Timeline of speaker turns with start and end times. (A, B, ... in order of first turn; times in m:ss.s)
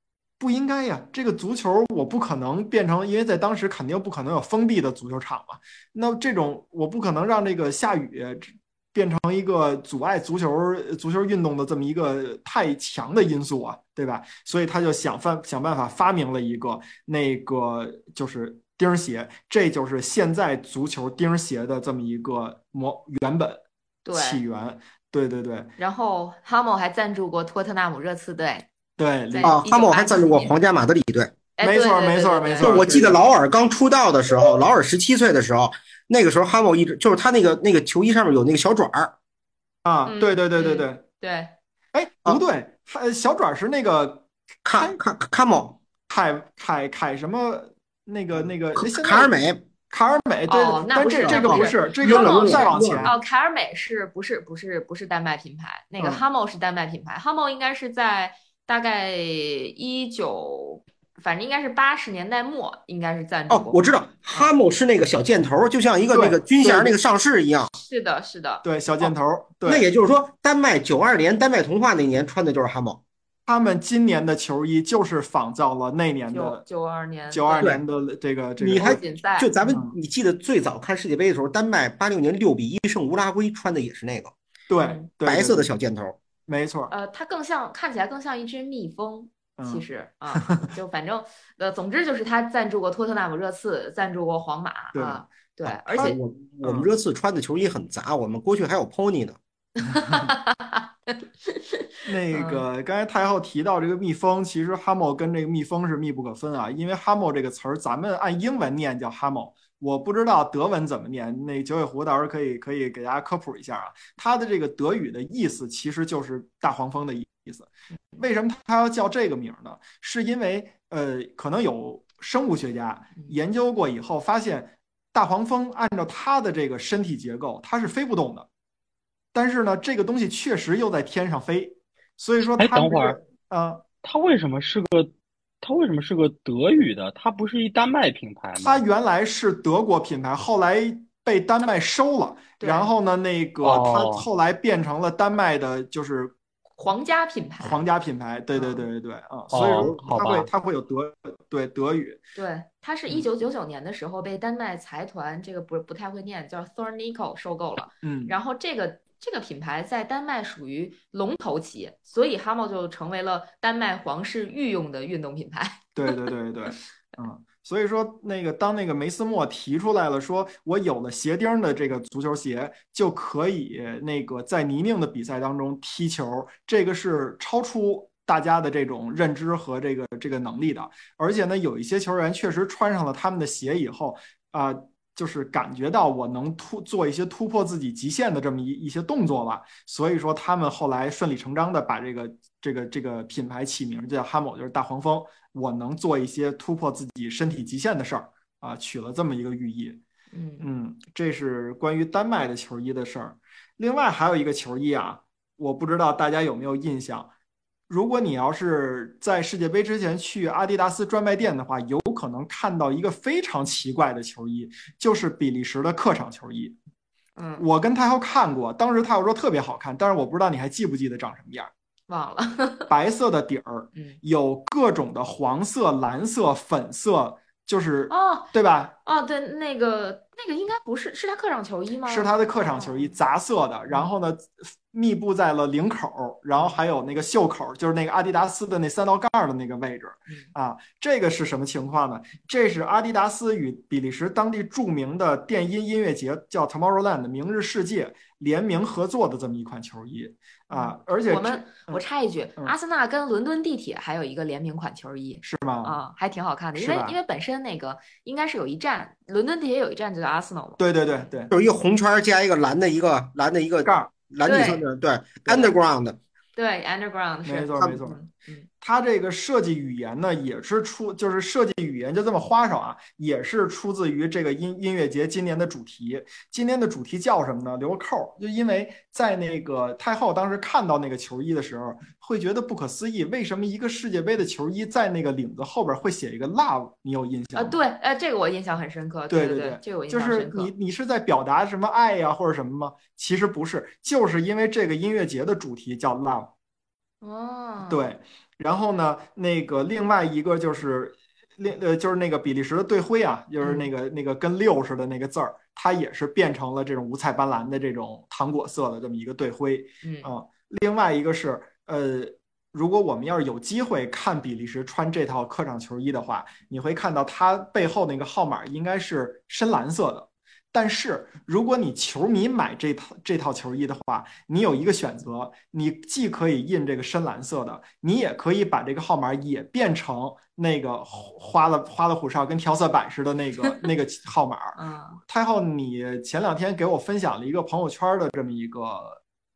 0:00.4-0:25.7 A
0:24.0-0:24.4 B
0:25.8-0:28.7 B
0:29.0-0:29.6 A
0:29.3-0:30.6 B
0:29.4-0:31.3 C
0:31.6-0:33.1 B
0:31.6-0:33.2 A
0:32.6-0:39.1 C
0:39.8-0:41.0 A
0:40.1-0:41.5 B
0:41.9-0:44.9 A
0:44.6-0:45.8 C
0:46.1-0:49.3 A
0:48.3-0:49.6 C
0:49.9-0:53.2 A
0:50.5-1:04.5 B
0:51.2-0:53.2 C
1:03.5-1:07.7 C
1:06.1-1:07.0 A
1:07.8-1:08.6 B
1:08.6-1:09.9 A
1:09.6-1:13.0 C
1:13.5-1:16.6 A
1:16.3-1:17.8 B
1:17.3-1:19.0 A
1:18.6-1:24.4 C
1:18.7-1:19.5 B
1:19.6-1:19.9 A
1:24.7-1:25.7 A
1:24.8-1:25.1 B
1:25.2-1:26.2 C
1:26.5-1:26.9 A
1:26.9-1:36.2 B
1:29.6-1:30.7 A
1:34.9-1:35.3 A
1:35.8-1:36.9 A
1:35.9-1:39.4 C
1:39.8-1:41.6 B
1:40.0-1:40.3 A
1:42.0-2:08.5 A
1:42.3-1:42.6 B
2:09.3-2:13.8 A
2:12.6-2:13.2 D
2:14.0-2:18.8 D
2:18.6-2:26.3 A
2:22.6-2:22.9 B
2:23.6-2:24.2 D
2:26.8-2:27.8 B
2:27.6-2:32.2 A
2:28.5-2:28.9 B
2:29.5-2:30.5 D
2:32.3-2:46.3 B
2:38.0-2:38.3 A
2:45.9-3:20.0 A
3:20.3-3:20.7 B
3:20.6-3:27.3 A
3:27.9-3:36.8 A
3:37.4-3:37.6 B
3:37.6-3:41.7 A
3:42.1-3:42.9 B
3:42.9-3:49.0 A
3:48.1-3:48.5 B
3:49.0-3:53.2 B
3:52.0-4:12.0 A
4:10.7-4:20.8 B
4:15.4-4:16.0 A
4:16.7-4:17.2 A
4:20.8-4:21.5 A
4:21.5-4:26.2 C
4:23.8-4:24.1 A
4:24.4-4:24.8 B
4:26.6-4:28.7 B
4:27.4-4:28.2 A
4:28.8-4:47.8 A
4:47.5-4:50.7 B
4:49.3-4:56.5 A
4:57.2-4:58.0 B
4:57.8-5:39.2 A
5:03.6-5:03.9 B
5:10.0-5:10.3 B
5:34.8-5:35.2 B